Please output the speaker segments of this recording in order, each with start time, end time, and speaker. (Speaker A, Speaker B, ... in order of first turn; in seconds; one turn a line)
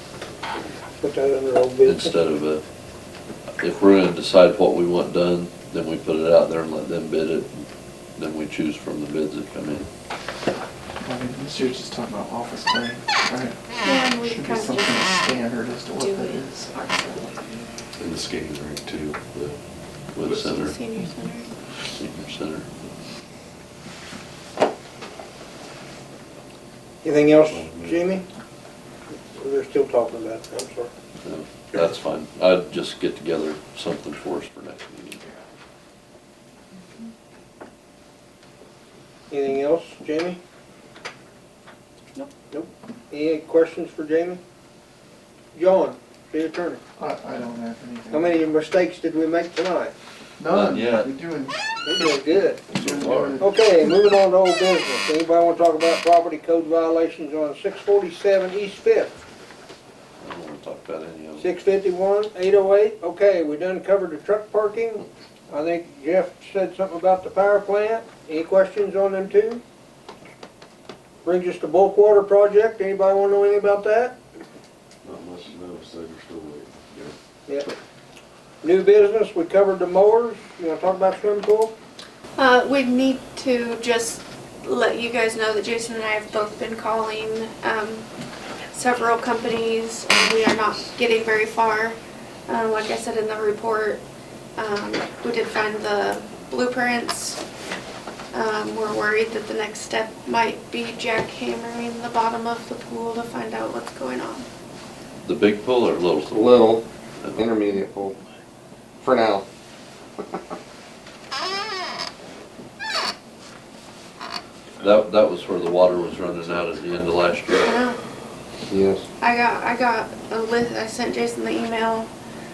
Speaker A: 1.0-2.1
Speaker B: 1.8-2.6
Speaker B: 3.6-9.9
Speaker C: 11.0-13.6
Speaker D: 13.8-15.4
Speaker C: 14.2-16.7
Speaker D: 16.0-17.7
Speaker E: 18.0-19.6
Speaker B: 20.1-20.8
Speaker D: 20.3-21.5
Speaker B: 21.9-22.7
Speaker A: 27.0-28.2
Speaker E: 27.4-28.2
Speaker A: 29.1-30.9
Speaker B: 31.2-35.2
Speaker A: 39.3-40.4
Speaker A: 42.5-44.4
Speaker A: 45.5-46.8
Speaker C: 47.0-48.5
Speaker A: 48.1-49.9
Speaker C: 50.4-51.6
Speaker B: 50.5-51.1
Speaker A: 51.8-52.6
Speaker B: 52.6-53.4
Speaker C: 52.7-53.9
Speaker A: 53.4-59.2
Speaker B: 60.2-61.5
Speaker A: 61.4-69.6
Speaker A: 71.2-74.2
Speaker E: 75.0-77.2
Speaker A: 78.6-81.7
Speaker D: 82.3-88.1
Speaker D: 88.7-92.0
Speaker D: 92.5-94.0
Speaker D: 94.6-97.4
Speaker D: 98.3-104.5
Speaker B: 105.2-106.7
Speaker F: 106.2-108.2
Speaker B: 107.2-107.8
Speaker F: 109.0-109.4
Speaker B: 114.8-117.7
Speaker E: 116.3-117.2
Speaker D: 117.7-118.0
Speaker F: 118.7-119.0
Speaker D: 119.2-122.1